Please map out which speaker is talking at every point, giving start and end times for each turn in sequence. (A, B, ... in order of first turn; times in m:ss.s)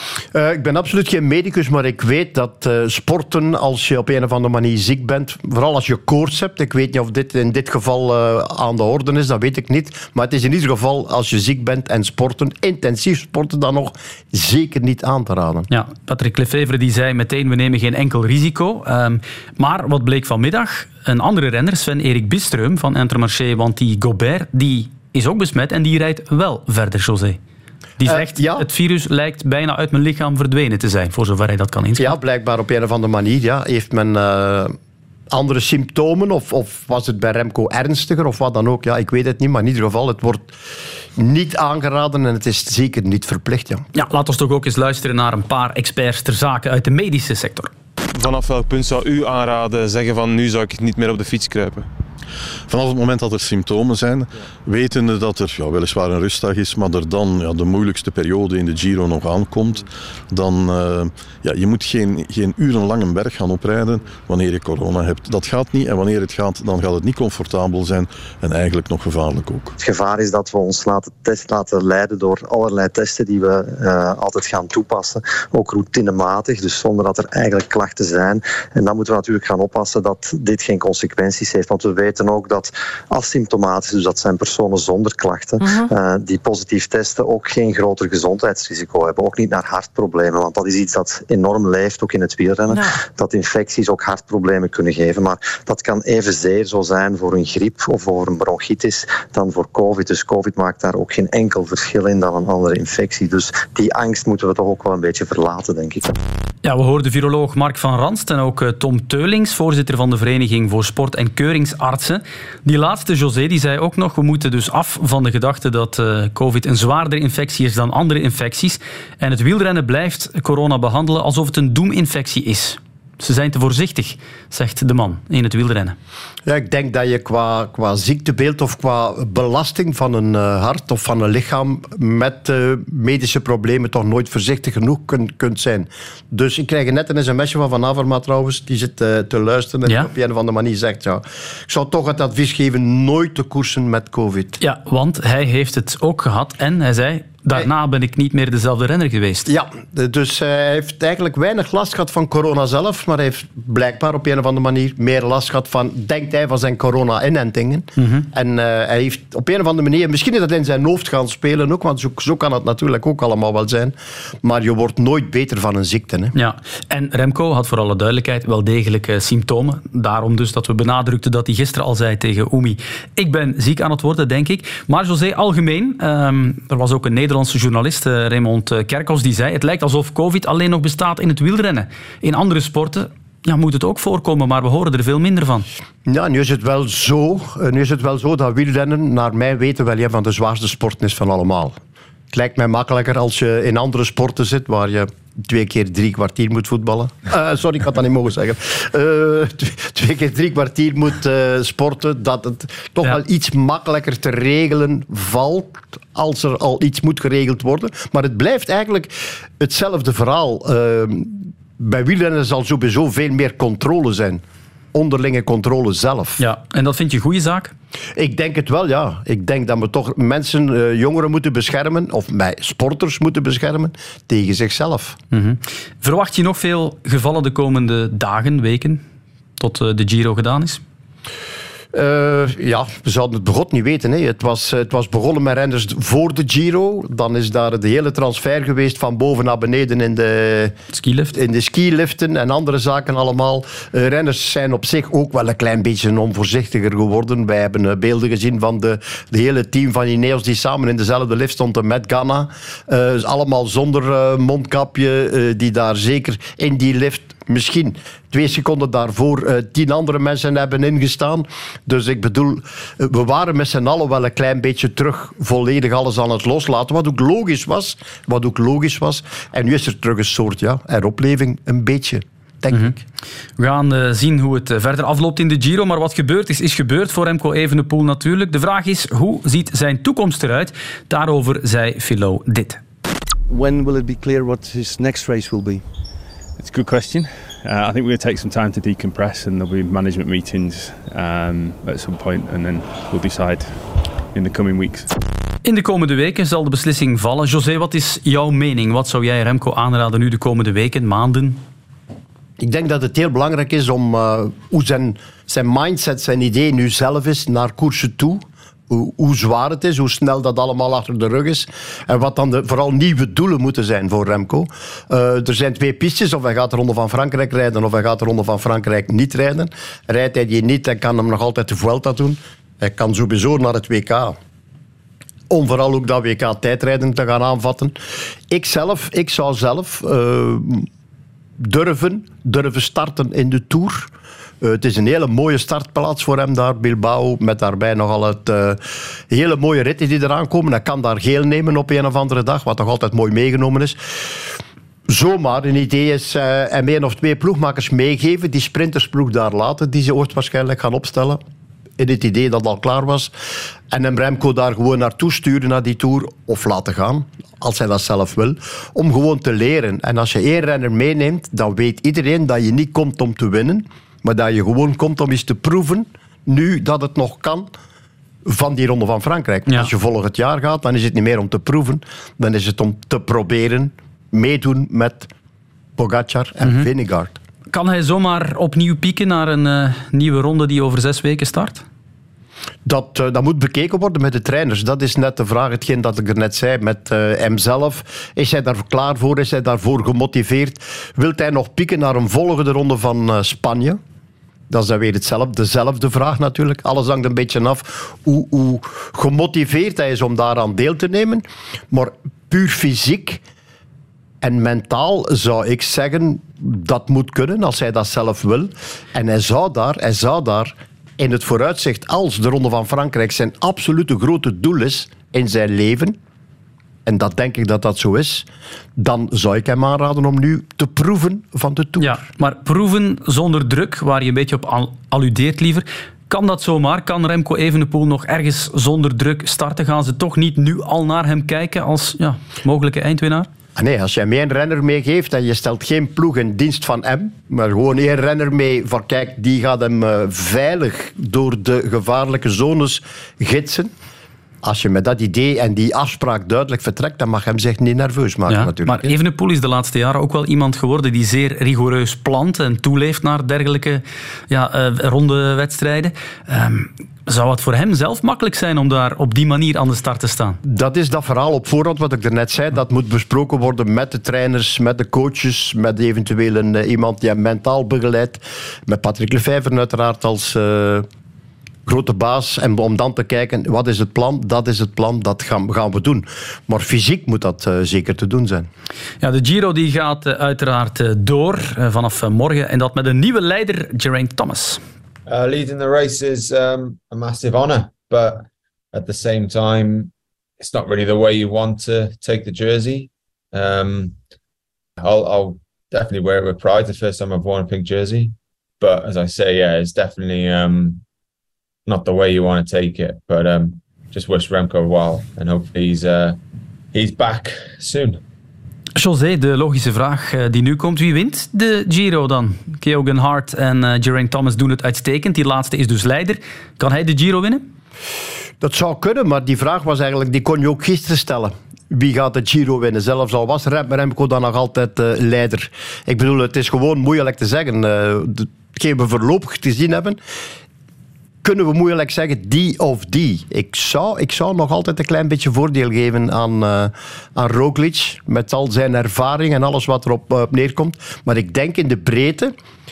0:00.3-0:15.7 A
0:15.7-0:27.4 B
0:28.0-0:32.2 B
0:28.0-0:28.7 A
0:32.0-0:34.7 A
0:35.3-0:40.6 A
0:41.2-0:43.8 A
0:43.9-0:47.7 B
0:48.1-0:51.9 C
0:52.7-1:09.8 D
1:09.8-1:46.2 E
1:46.6-2:06.0 B
2:06.5-2:24.6 A
2:24.6-2:29.5 B
2:29.5-2:46.3 A
2:38.0-2:38.3 B
2:46.4-3:05.7 B
3:06.1-3:11.8 A
3:12.3-3:34.4 A
3:34.9-3:36.4 A
3:36.4-3:37.7 B
3:38.2-3:45.2 A
3:45.3-3:49.0 B
3:49.6-3:50.8 B
3:51.9-4:00.8 A
4:00.9-4:01.3 B
4:01.3-4:33.0 A
4:33.6-4:42.8 B
4:43.5-4:45.8 F
4:46.6-4:55.1 G
4:55.6-5:01.6 B
5:02.6-5:24.4 A
5:25.5-5:28.0 A
5:28.5-5:30.9 A
5:31.6-5:44.0 A
5:45.1-5:51.4 A
5:52.0-5:53.3 A
5:53.9-6:07.7 A
6:08.4-6:15.3 A
6:16.0-6:17.4 A
6:17.7-6:21.8 B
6:22.8-6:34.0 A
6:34.7-6:43.4 A
6:44.4-6:56.2 A
6:57.0-7:02.3 A
7:02.0-7:13.5 B
7:13.8-7:23.9 A
7:24.6-7:29.2 A
7:28.5-7:40.6 B
7:40.6-7:51.1 A
7:51.9-7:58.7 A
7:59.2-8:04.8 B
8:05.3-8:14.2 H
8:15.0-8:21.0 H
8:21.9-8:26.4 H
8:26.9-8:28.2 H
8:29.0-8:37.7 B
8:38.6-8:50.2 A
8:51.4-9:02.5 A